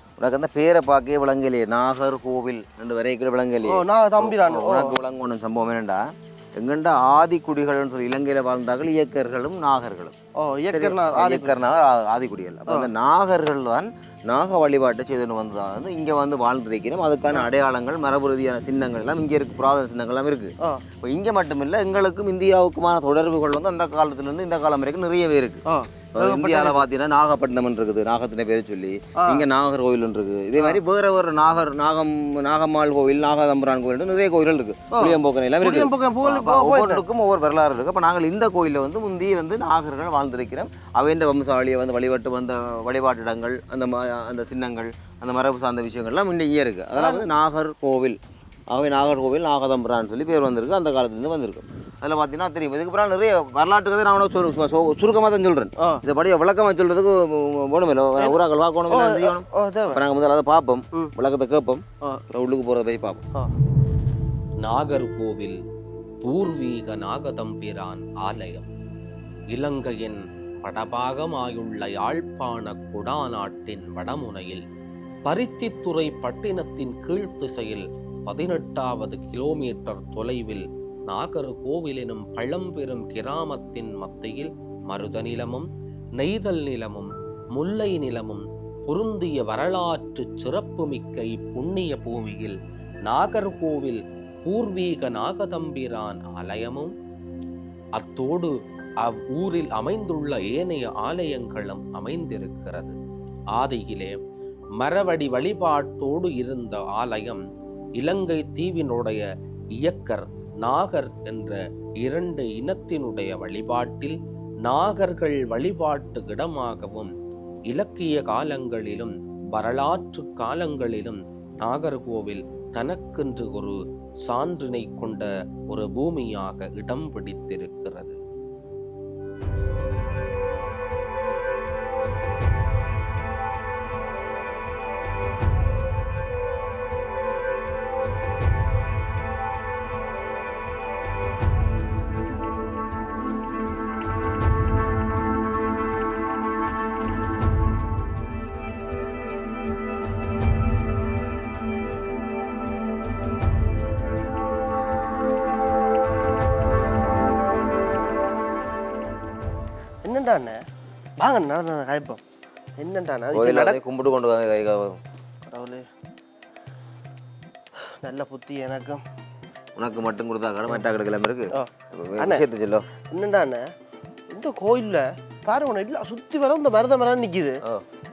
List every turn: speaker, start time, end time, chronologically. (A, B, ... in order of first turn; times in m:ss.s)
0:00.2-0:10.2 A
0:03.6-0:05.0 B
0:10.4-0:11.5 B
0:10.7-1:03.2 A
0:25.7-0:26.9 B
0:29.2-0:29.5 B
0:34.9-0:37.0 B
0:47.0-0:47.3 B
0:58.9-1:00.0 B
1:04.6-1:05.6 C
1:06.2-1:08.7 C
1:09.5-1:14.6 C
1:15.3-1:25.7 C
1:26.2-1:32.6 C
1:33.1-1:36.9 C
1:38.0-1:38.5 C
1:39.0-1:43.0 C
1:43.6-1:44.2 C
1:44.8-1:47.4 C
1:48.0-1:49.2 C
1:49.8-1:57.1 C
1:57.7-2:03.8 C
2:04.3-2:08.2 C
2:40.0-2:40.6 B
2:41.2-2:42.2 B
2:42.8-2:43.8 B
2:43.3-2:45.0 A
2:45.5-2:45.8 B
2:48.0-2:49.0 B
2:49.8-2:52.9 A
2:53.1-2:53.6 B
2:54.3-2:57.6 B